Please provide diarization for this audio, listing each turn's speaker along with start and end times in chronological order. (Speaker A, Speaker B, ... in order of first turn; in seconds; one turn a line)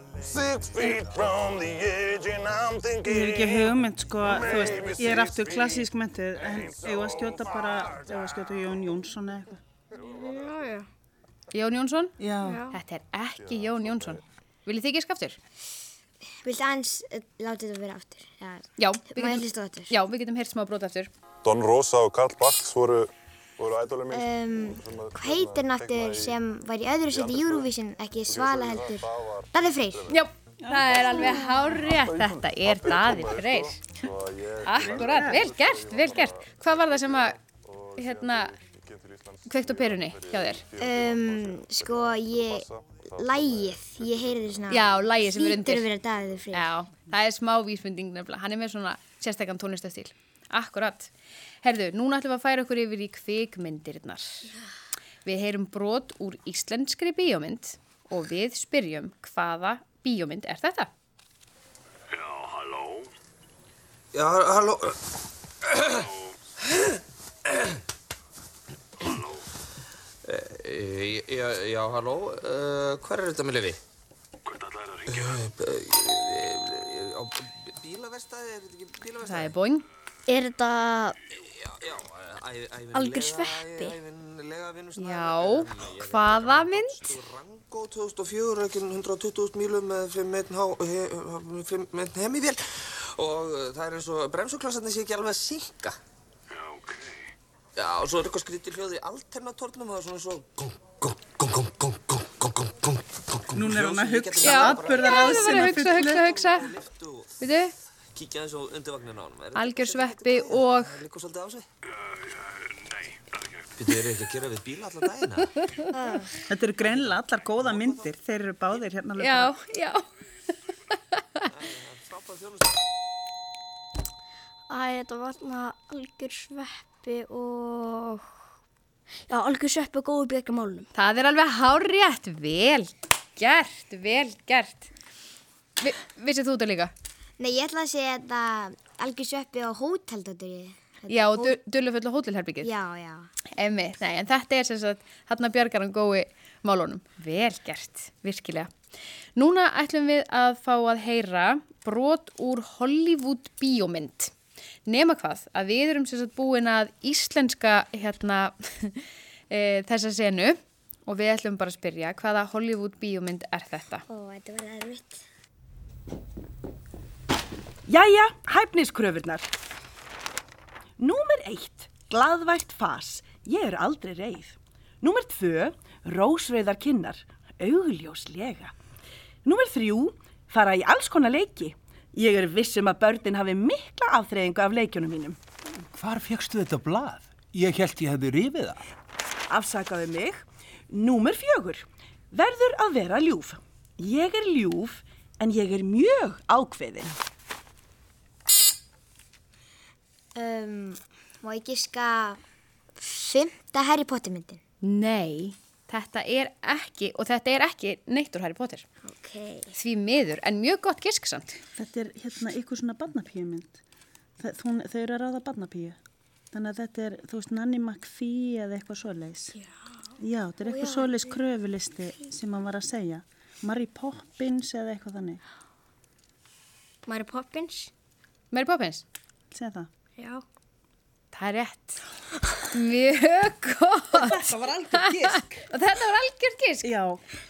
Speaker A: 0.3-3.6
Speaker B: 3.0-9.6
Speaker A: 4.3-5.6
Speaker A: 6.6-7.7
Speaker C: 10.0-10.9
Speaker A: 10.0-10.5
Speaker D: 11.5-12.2
Speaker B: 12.2-12.6
Speaker C: 12.4-12.8
Speaker D: 12.7-15.4
Speaker A: 13.4-14.2
Speaker E: 16.4-19.9
Speaker D: 18.8-21.1
Speaker A: 21.4-26.4
Speaker E: 24.1-30.1
Speaker A: 27.1-30.2
Speaker D: 30.1-33.9
Speaker B: 30.6-31.6
Speaker A: 30.8-31.3
Speaker A: 32.5-44.9
Speaker D: 34.6-37.4
Speaker B: 34.8-35.5
Speaker D: 38.0-38.5
Speaker D: 39.5-40.6
Speaker E: 40.8-46.8
Speaker D: 44.7-45.9
Speaker A: 46.1-46.5
Speaker D: 46.5-51.1
Speaker D: 51.6-54.5
Speaker D: 55.2-60.9
Speaker F: 64.1-65.0
Speaker F: 65.6-66.1
Speaker F: 70.2-73.8
Speaker F: 75.0-79.5
Speaker D: 79.2-79.8
Speaker C: 80.3-81.2
Speaker F: 81.7-96.0
Speaker C: 82.9-84.0
Speaker D: 85.0-87.1
Speaker F: 97.8-107.2
Speaker B: 103.5-106.2
Speaker D: 104.4-106.7
Speaker D: 107.4-107.7
Speaker F: 108.1-111.7
Speaker D: 109.5-111.0
Speaker F: 113.8-115.7
Speaker E: 115.9-116.4
Speaker B: 116.5-119.5
Speaker F: 116.8-118.0
Speaker D: 119.2-120.0
Speaker D: 121.1-121.5
Speaker F: 121.5-122.8
Speaker C: 124.7-128.2
Speaker C: 129.3-130.9
Speaker D: 130.9-134.9
Speaker D: 135.8-136.9
Speaker E: 137.4-141.6
Speaker D: 141.1-142.7
Speaker E: 142.6-143.3
Speaker D: 143.5-148.7
Speaker D: 149.3-154.3
Speaker D: 154.9-164.0
Speaker E: 164.1-165.2
Speaker G: 167.9-169.4
Speaker G: 171.0-178.7
Speaker G: 179.4-185.4
Speaker H: 185.9-188.8
Speaker G: 189.5-190.4
Speaker G: 190.9-191.8
Speaker G: 192.4-197.1
Speaker E: 200.3-202.4
Speaker E: 203.0-204.6
Speaker D: 204.8-208.8
Speaker E: 209.0-209.8
Speaker D: 209.8-211.5
Speaker B: 211.8-213.8
Speaker B: 214.4-216.0
Speaker B: 216.5-219.5
Speaker B: 220.2-225.4
Speaker E: 220.8-221.1
Speaker C: 227.1-227.9
Speaker D: 228.5-229.0
Speaker B: 229.5-229.9
Speaker C: 230.2-230.4
Speaker D: 231.3-232.0
Speaker D: 232.6-236.9
Speaker B: 234.2-235.4
Speaker B: 236.8-237.2